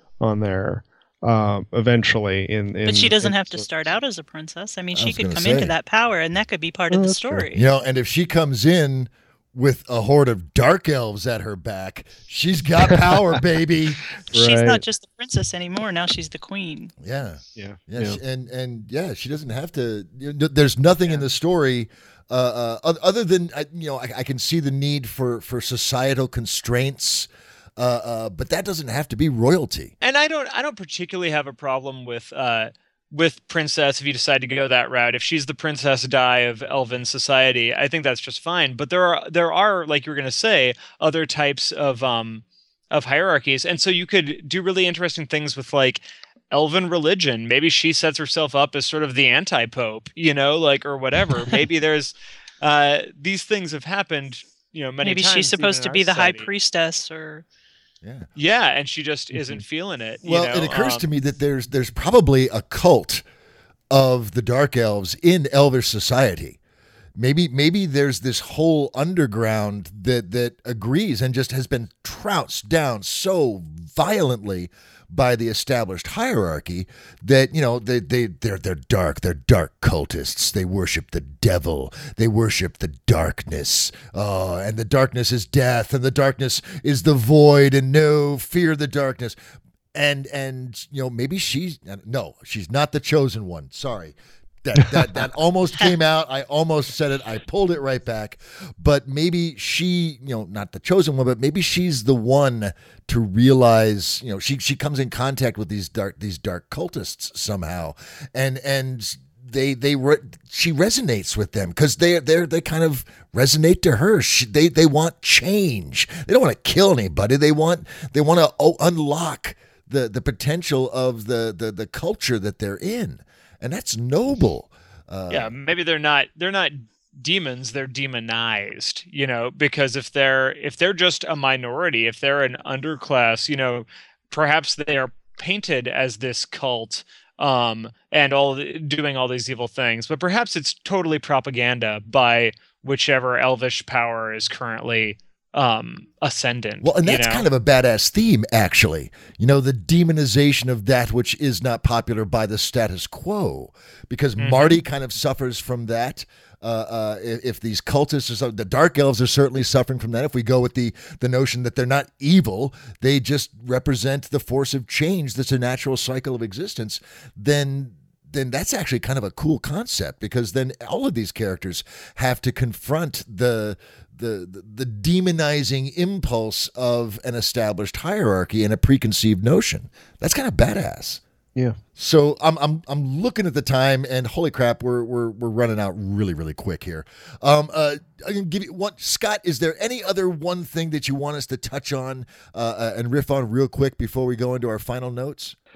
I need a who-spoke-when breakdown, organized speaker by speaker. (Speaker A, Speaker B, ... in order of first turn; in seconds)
Speaker A: 0.2-3.6, 6.9-7.5, 14.3-14.8, 17.6-18.2, 59.4-59.6
Speaker B: 2.9-7.6, 14.3-16.9, 55.0-57.4
Speaker C: 4.9-5.7, 7.5-14.1, 17.0-29.9, 58.0-58.3, 60.2-63.2, 63.9-66.6, 67.2-89.4, 89.9-125.5, 146.8-181.2, 182.0-195.6
Speaker D: 30.0-56.5, 58.4-61.0, 125.3-147.4, 154.4-154.8